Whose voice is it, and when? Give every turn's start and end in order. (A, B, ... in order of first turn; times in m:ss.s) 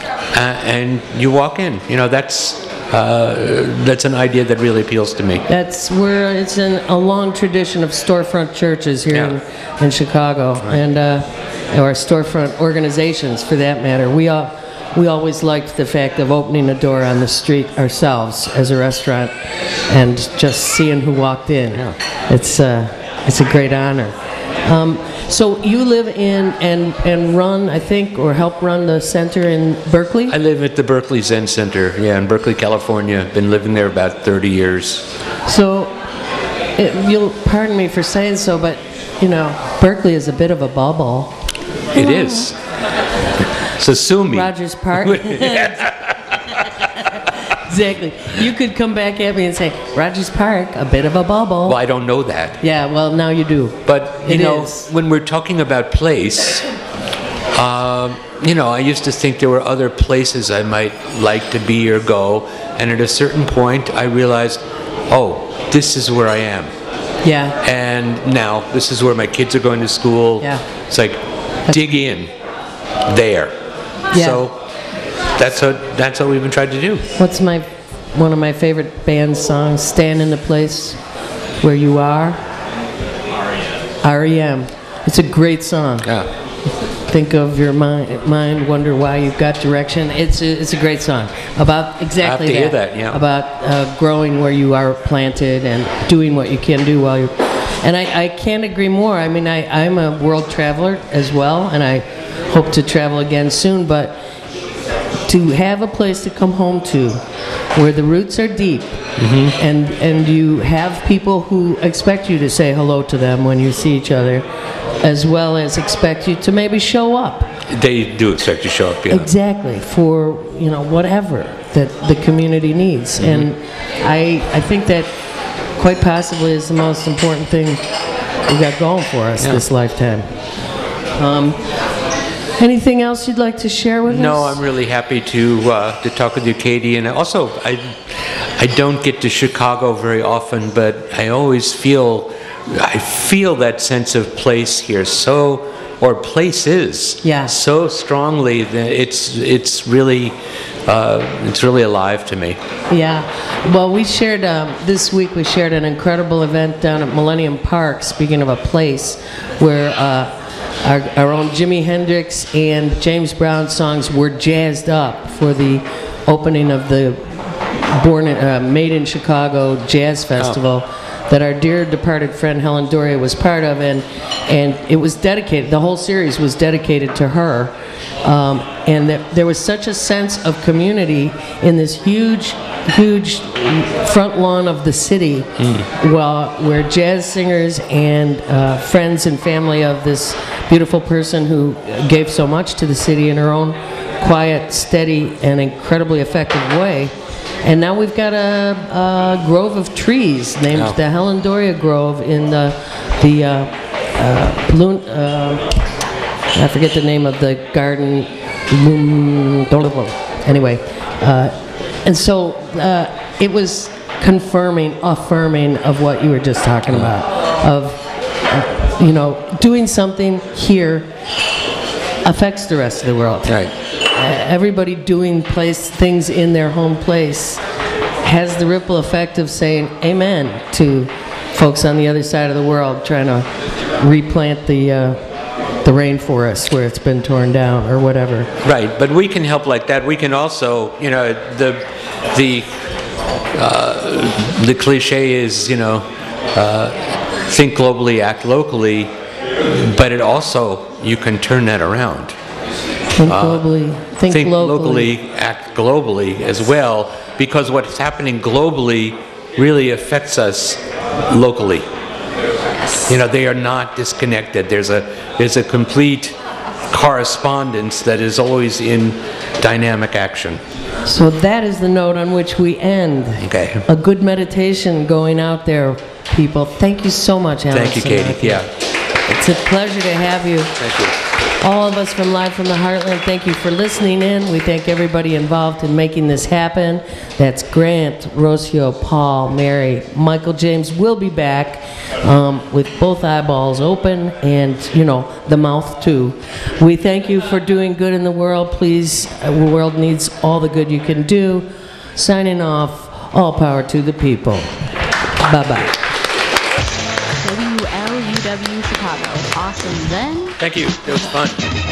0:00.3-0:05.4 A
0:05.5-0:19.3 B
0:19.9-0:30.4 B
0:30.3-0:35.1 A
0:35.5-0:36.0 B
0:36.8-0:41.4 B
0:41.9-0:42.6 A
0:42.0-0:42.3 B
0:43.6-0:46.6 A
0:44.3-0:45.8 B
0:46.8-0:51.8 B
0:51.6-0:52.6 A
0:52.6-0:54.8 B
0:53.9-0:56.7 A
0:57.5-1:06.7 A
1:07.2-1:07.6 B
1:07.6-1:12.3 A
1:13.0-1:13.6 A
1:14.1-1:14.5 B
1:14.1-1:14.6 A
1:15.4-1:17.1 A
1:17.2-1:21.0 B
1:21.6-1:22.4 B
1:24.0-1:26.1 B
1:26.0-1:26.3 A
1:27.1-1:44.2 B
1:32.2-1:33.2 A
1:45.3-1:47.2 B
1:47.8-1:49.0 B
1:49.2-1:49.6 A
1:49.6-1:54.5 B
1:55.0-1:57.5 B
1:57.7-1:59.3 A
1:59.1-2:05.1 B
2:03.2-2:03.5 A
2:05.8-2:07.8 B
2:08.5-2:10.3 B
2:11.2-2:11.6 B
2:12.6-2:14.6 B
2:14.1-2:32.6 A
2:27.2-2:27.5 B
2:32.9-3:25.7 B
3:20.7-3:21.0 A
3:26.6-3:41.1 B
3:42.2-3:47.6 B
3:43.5-3:43.7 A
3:48.2-3:55.2 B
3:55.8-3:58.5 B
3:58.6-4:02.7 A
4:03.5-4:12.4 A
4:13.2-4:15.1 B
4:13.2-4:13.7 A
4:14.3-4:21.9 A
4:23.0-4:26.4 A
4:26.9-4:30.6 A
4:31.0-4:38.7 B
4:33.4-4:33.9 A
4:37.7-4:38.7 A
4:39.3-4:40.8 B
4:40.8-4:41.2 A
4:41.6-5:04.7 B
5:05.4-5:06.0 B
5:07.4-5:10.6 C
5:10.6-5:11.6 A